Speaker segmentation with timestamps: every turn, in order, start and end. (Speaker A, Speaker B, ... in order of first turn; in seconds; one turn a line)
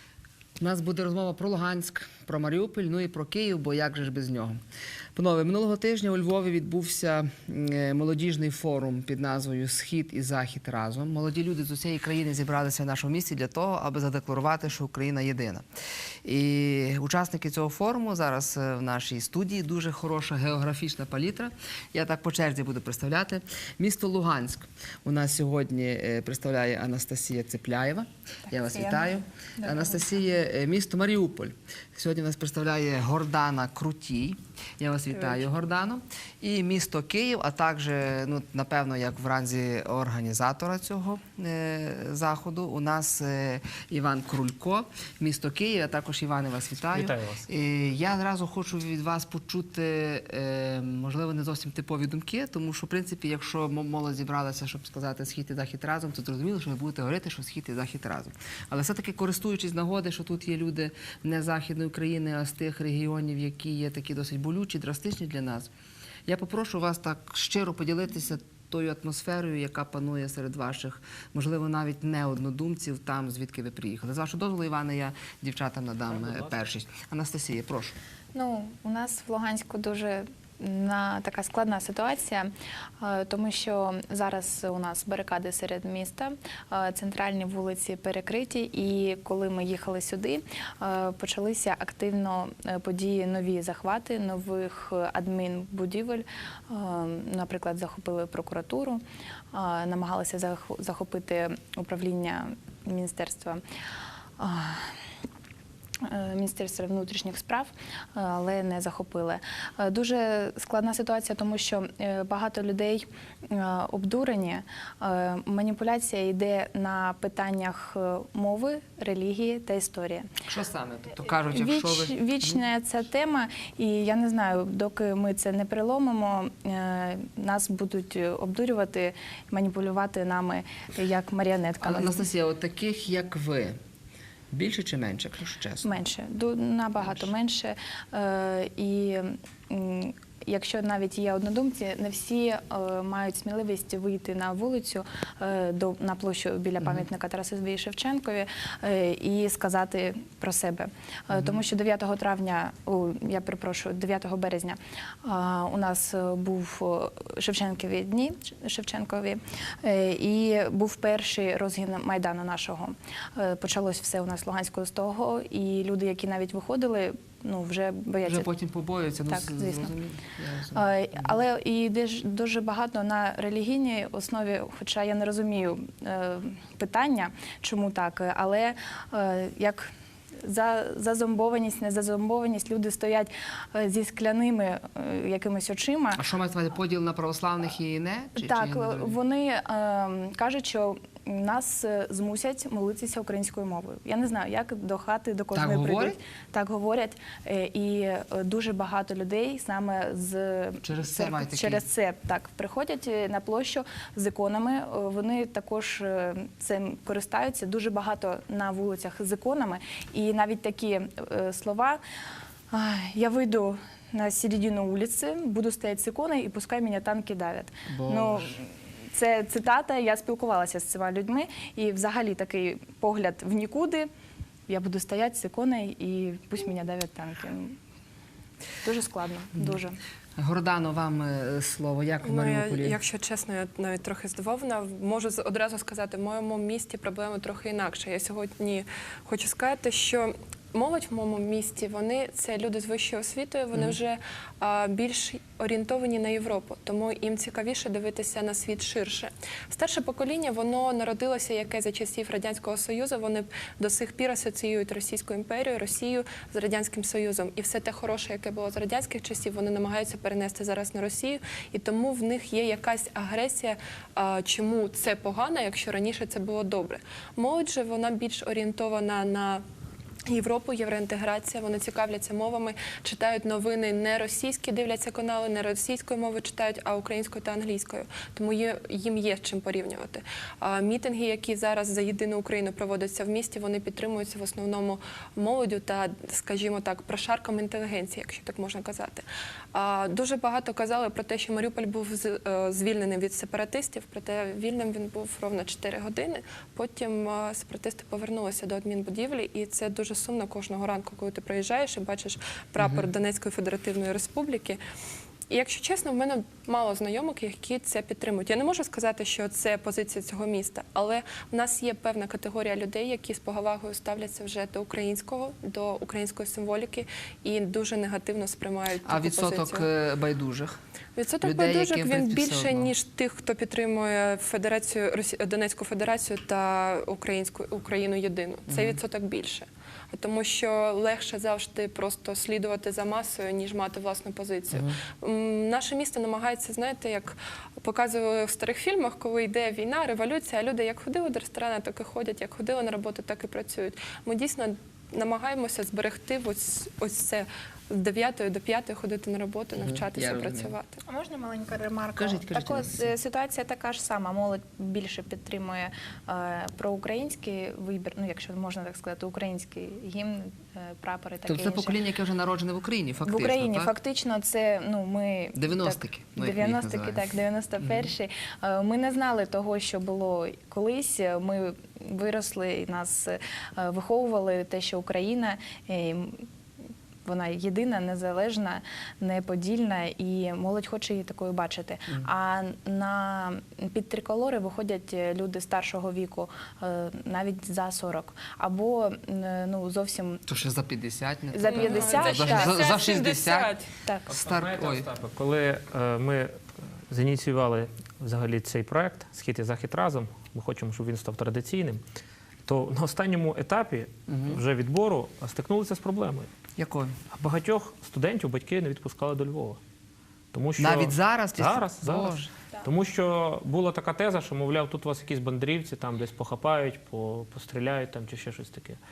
Speaker A: 0.6-4.6
Speaker A: 5.2-15.7
Speaker A: 16.2-65.7
Speaker B: 28.5-30.1
Speaker A: 66.3-78.0
Speaker B: 78.3-99.0
Speaker B: 99.5-103.6
Speaker B: 104.4-104.9
Speaker B: 106.0-120.3
Speaker A: 120.5-122.2
Speaker B: 121.5-132.2
Speaker A: 131.8-133.8
Speaker A: 134.5-135.9
Speaker B: 135.8-168.5
Speaker A: 151.3-151.6
Speaker A: 168.3-170.9
Speaker B: 169.3-169.9
Speaker B: 170.7-179.9
Speaker B: 180.4-186.2
Speaker A: 186.2-189.2
Speaker B: 188.4-212.0
Speaker A: 195.5-196.2
Speaker A: 200.8-201.8
Speaker B: 212.7-224.1
Speaker A: 217.9-218.6
Speaker B: 224.7-227.8
Speaker B: 228.8-230.0
Speaker A: 230.4-233.0
Speaker C: 232.2-269.6
Speaker C: 270.3-304.8
Speaker A: 302.8-303.1
Speaker C: 305.5-319.9
Speaker A: 319.1-320.8
Speaker C: 321.2-351.0
Speaker A: 321.4-322.9
Speaker A: 328.7-329.0
Speaker A: 349.8-350.8
Speaker B: 351.1-362.0
Speaker A: 352.2-353.1
Speaker A: 361.5-363.9
Speaker B: 363.2-376.5
Speaker A: 365.6-367.3
Speaker A: 367.8-368.1
Speaker B: 377.2-390.4
Speaker A: 390.5-393.7
Speaker B: 391.5-392.8
Speaker C: 391.6-393.9
Speaker A: 394.3-395.1
Speaker D: 394.6-396.5
Speaker D: 397.1-402.0
Speaker D: 402.7-406.5
Speaker A: 404.3-404.6
Speaker A: 406.8-407.2
Speaker D: 407.4-409.8
Speaker D: 410.5-410.9
Speaker A: 410.8-412.5
Speaker D: 411.7-412.2
Speaker D: 412.9-419.0